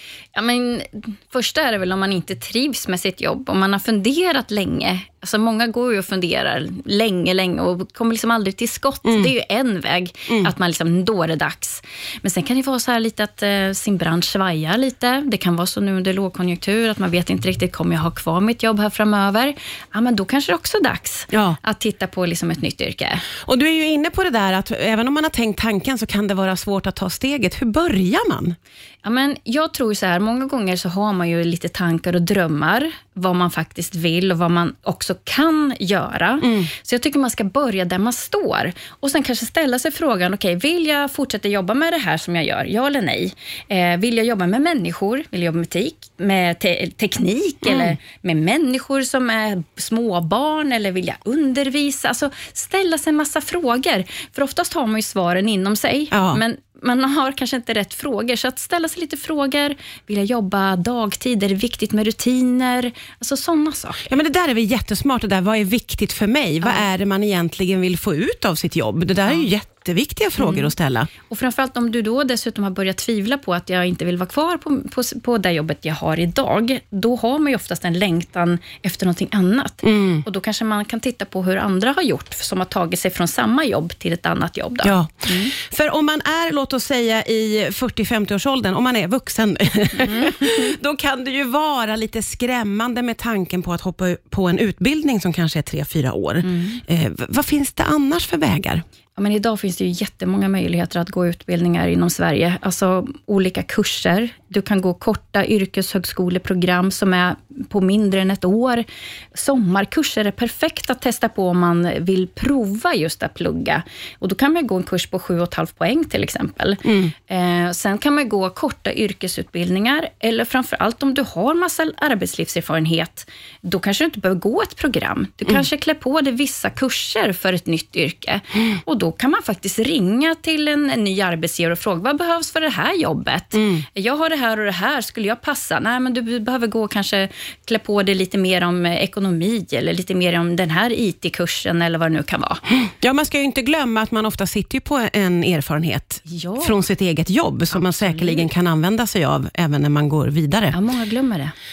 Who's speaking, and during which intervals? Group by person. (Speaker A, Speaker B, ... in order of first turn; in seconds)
Speaker A: 0.3-23.2, 29.0-64.0, 66.6-66.9, 70.4-70.7, 71.3-85.5, 90.0-90.4, 96.4-96.8, 99.2-142.6, 146.3-146.8, 147.7-148.5, 150.7-151.5
Speaker B: 21.3-21.6, 23.4-28.6, 36.4-36.7, 47.6-47.9, 56.1-56.4, 64.0-71.1, 79.8-80.2, 84.8-98.8, 116.8-117.1, 133.6-133.8, 142.8-150.8